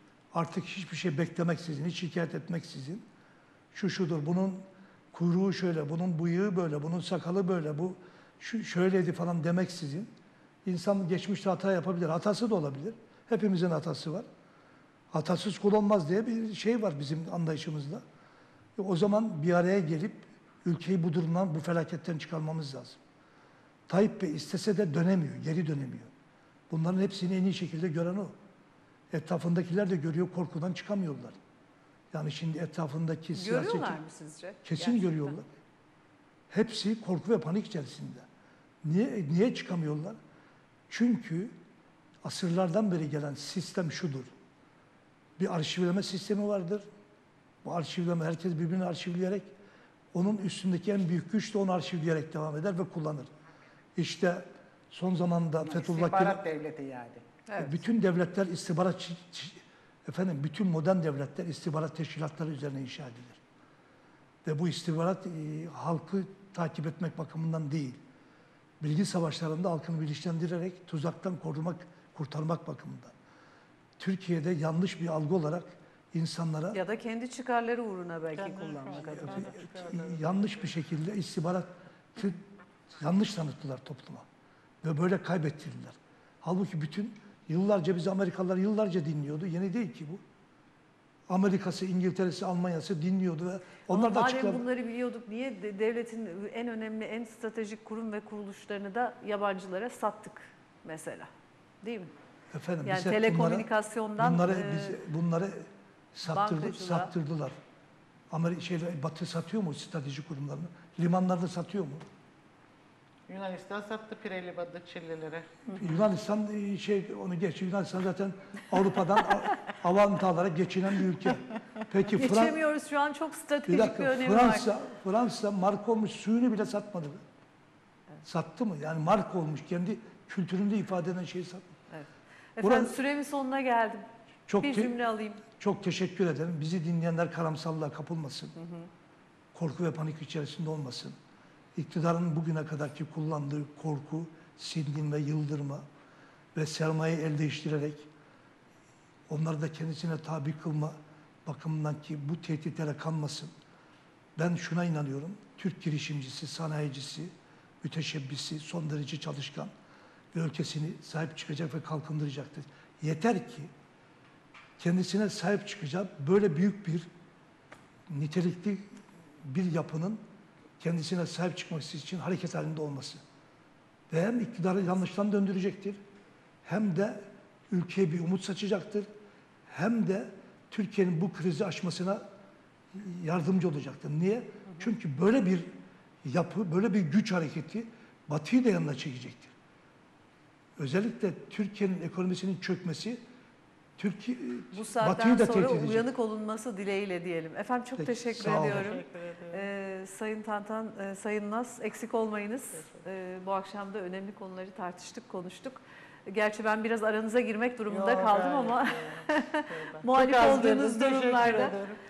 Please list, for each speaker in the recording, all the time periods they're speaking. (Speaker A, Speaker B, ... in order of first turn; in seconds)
Speaker A: 0.3-3.0, 3.7-10.1, 10.7-14.3, 15.1-18.0, 18.8-23.0, 23.9-26.1, 26.7-28.3, 29.1-31.4, 32.1-34.0, 34.6-35.5, 36.5-38.2, 38.8-40.2, 40.9-41.5, 42.2-44.3, 45.4-46.9, 47.6-49.5, 50.1-53.3, 54.0-56.4, 57.6-63.4, 64.5-68.0, 68.8-73.1, 74.0-76.8, 79.2-82.4, 83.0-84.3, 84.8-90.2, 91.3-94.6, 102.5-107.6, 108.3-112.0, 115.7-122.6, 123.7-127.2, 128.2-131.7, 132.6-133.0, 134.5-134.9, 135.6-138.5, 139.5-141.2, 141.8-145.9, 146.6-148.1, 149.3-153.5, 154.4-159.7, 160.3-163.7, 164.8-167.1, 168.1-170.2, 170.8-173.2, 174.1-176.0, 176.7-179.1, 179.7-182.2, 182.9-189.5, 190.8-193.2, 194.0-196.1, 198.0-199.0
Speaker B: 33.4-35.4, 57.5-57.8, 76.7-79.5, 93.9-101.3, 101.8-102.1, 102.8-105.0, 106.2-107.1, 122.1-124.7, 131.9-134.0, 134.6-135.4, 138.6-138.9, 194.7-211.8
Speaker C: 55.6-57.4, 78.3-80.7, 113.3-115.8, 198.4-199.7, 207.9-212.0